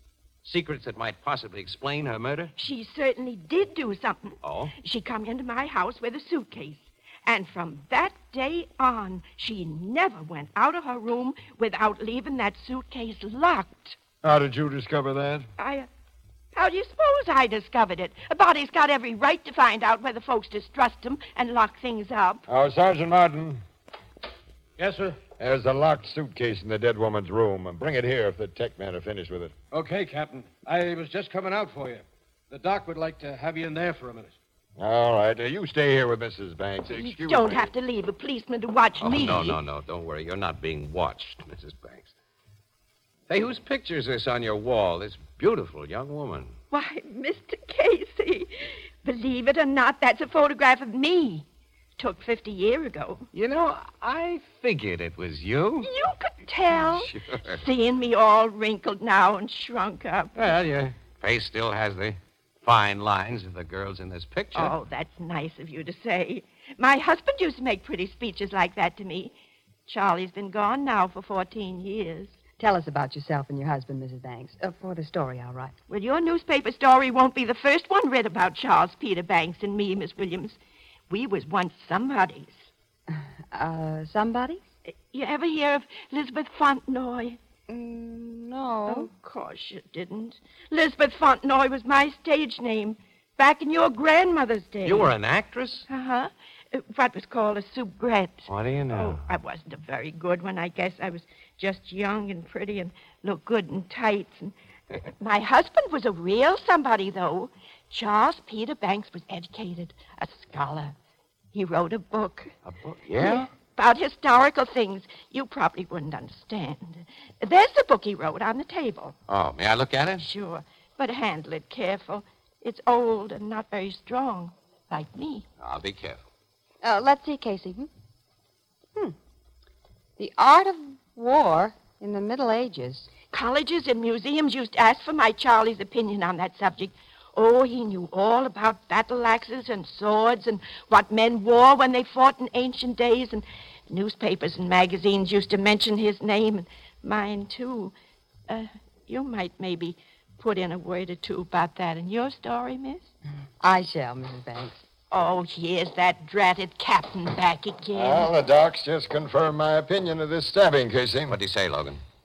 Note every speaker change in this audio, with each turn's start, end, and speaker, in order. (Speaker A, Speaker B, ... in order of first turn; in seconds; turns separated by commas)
Speaker A: 0.4-2.5, Speaker B: 2.6-14.0, Speaker A: 4.4-4.7, Speaker C: 14.2-15.5, Speaker B: 15.6-15.9, Speaker B: 16.6-22.4, Speaker C: 22.5-23.6, Speaker D: 24.8-25.2, Speaker C: 25.4-29.5, Speaker D: 29.7-34.4, Speaker C: 34.8-37.7, Speaker B: 36.9-39.6, Speaker A: 39.0-42.1, Speaker A: 43.3-46.6, Speaker B: 46.7-51.5, Speaker B: 52.0-53.3, Speaker A: 53.3-55.9, Speaker B: 55.8-60.3, Speaker A: 56.8-57.6, Speaker A: 60.4-64.8, Speaker B: 64.5-69.3, Speaker B: 69.9-72.4, Speaker E: 72.6-75.8, Speaker B: 75.9-80.6, Speaker B: 81.1-82.7, Speaker E: 83.1-84.7, Speaker B: 84.9-87.4, Speaker E: 87.7-89.1, Speaker B: 88.9-95.1, Speaker A: 94.8-95.9, Speaker B: 95.9-104.5, Speaker A: 98.5-99.2, Speaker B: 105.0-111.0, Speaker B: 111.5-112.5, Speaker A: 112.7-113.5, Speaker B: 113.2-119.2, Speaker A: 119.3-120.3, Speaker B: 120.2-125.5, Speaker A: 125.6-126.2, Speaker E: 126.8-127.9, Speaker E: 130.2-133.1, Speaker B: 133.3-147.9, Speaker B: 148.5-153.1, Speaker E: 153.6-154.8, Speaker B: 155.1-158.3, Speaker C: 157.9-161.4, Speaker A: 161.3-162.0